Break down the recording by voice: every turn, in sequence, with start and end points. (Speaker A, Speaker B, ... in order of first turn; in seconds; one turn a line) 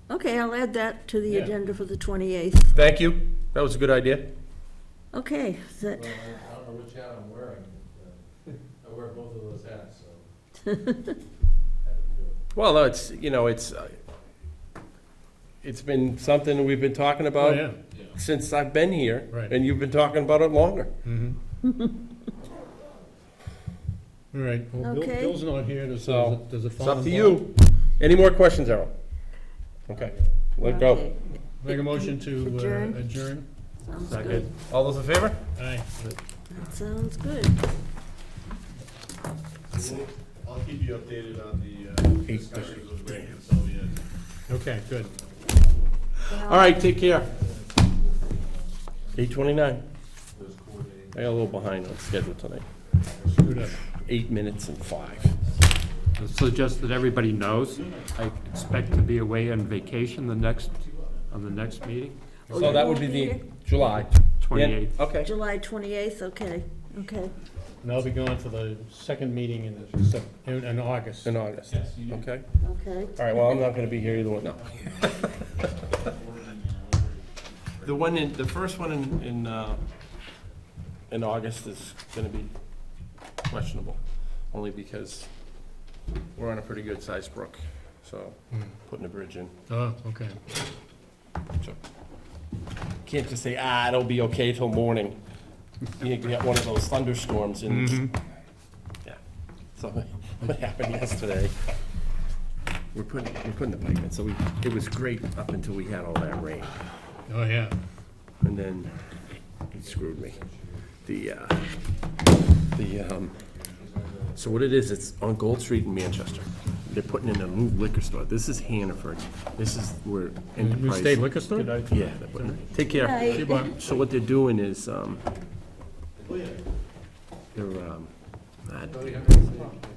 Speaker A: 0.1-2.7
Speaker B: 2.7-4.3
Speaker A: 5.1-6.3
Speaker C: 5.9-8.2
Speaker C: 8.8-10.3
Speaker C: 11.8-12.4
Speaker B: 12.5-14.0
Speaker B: 15.6-20.9
Speaker D: 17.4-17.8
Speaker D: 21.0-21.4
Speaker D: 24.3-27.4
Speaker A: 24.8-25.4
Speaker B: 26.0-28.9
Speaker B: 29.9-31.1
Speaker C: 29.9-30.3
Speaker A: 30.6-33.1
Speaker D: 31.6-33.5
Speaker A: 33.9-34.5
Speaker E: 34.0-34.5
Speaker B: 34.7-35.4
Speaker D: 35.6-36.0
Speaker A: 36.5-37.6
Speaker F: 39.7-44.0
Speaker B: 42.2-43.4
Speaker D: 44.5-45.1
Speaker C: 45.0-45.9
Speaker A: 46.3-46.8
Speaker B: 46.3-47.3
Speaker C: 46.7-49.5
Speaker B: 49.1-49.8
Speaker C: 50.3-51.8
Speaker B: 51.1-52.7
Speaker C: 52.7-53.6
Speaker D: 53.4-53.8
Speaker B: 53.8-55.4
Speaker C: 54.5-57.3
Speaker E: 56.2-60.8
Speaker F: 57.7-58.2
Speaker C: 57.8-58.1
Speaker C: 59.6-61.3
Speaker F: 61.2-61.7
Speaker E: 61.3-62.9
Speaker A: 62.5-63.8
Speaker B: 62.5-65.3
Speaker E: 63.8-65.0
Speaker A: 65.2-67.3
Speaker D: 67.8-71.3
Speaker C: 69.7-70.0
Speaker B: 71.2-72.4
Speaker C: 71.8-72.2
Speaker A: 72.6-73.4
Speaker B: 73.2-75.3
Speaker C: 73.7-76.1
Speaker F: 76.4-77.1
Speaker B: 77.8-79.8
Speaker B: 81.1-82.5
Speaker B: 83.5-85.3
Speaker B: 86.3-89.5
Speaker D: 89.7-90.4
Speaker B: 93.0-95.2
Speaker B: 96.0-98.1
Speaker D: 97.7-98.1
Speaker B: 99.8-101.5
Speaker B: 102.9-106.8
Speaker D: 107.3-107.8
Speaker B: 108.4-108.9
Speaker B: 109.7-110.4
Speaker C: 109.7-111.1
Speaker B: 111.0-111.7
Speaker B: 112.7-113.4
Speaker C: 113.3-115.3
Speaker B: 114.3-125.2
Speaker C: 116.1-120.0
Speaker D: 120.6-122.6
Speaker C: 122.1-124.5
Speaker A: 122.9-123.8
Speaker D: 123.3-123.8
Speaker C: 125.0-125.4
Speaker C: 126.2-126.7
Speaker F: 126.2-126.6
Speaker B: 127.5-128.1
Speaker B: 128.6-129.3
Speaker C: 128.9-129.7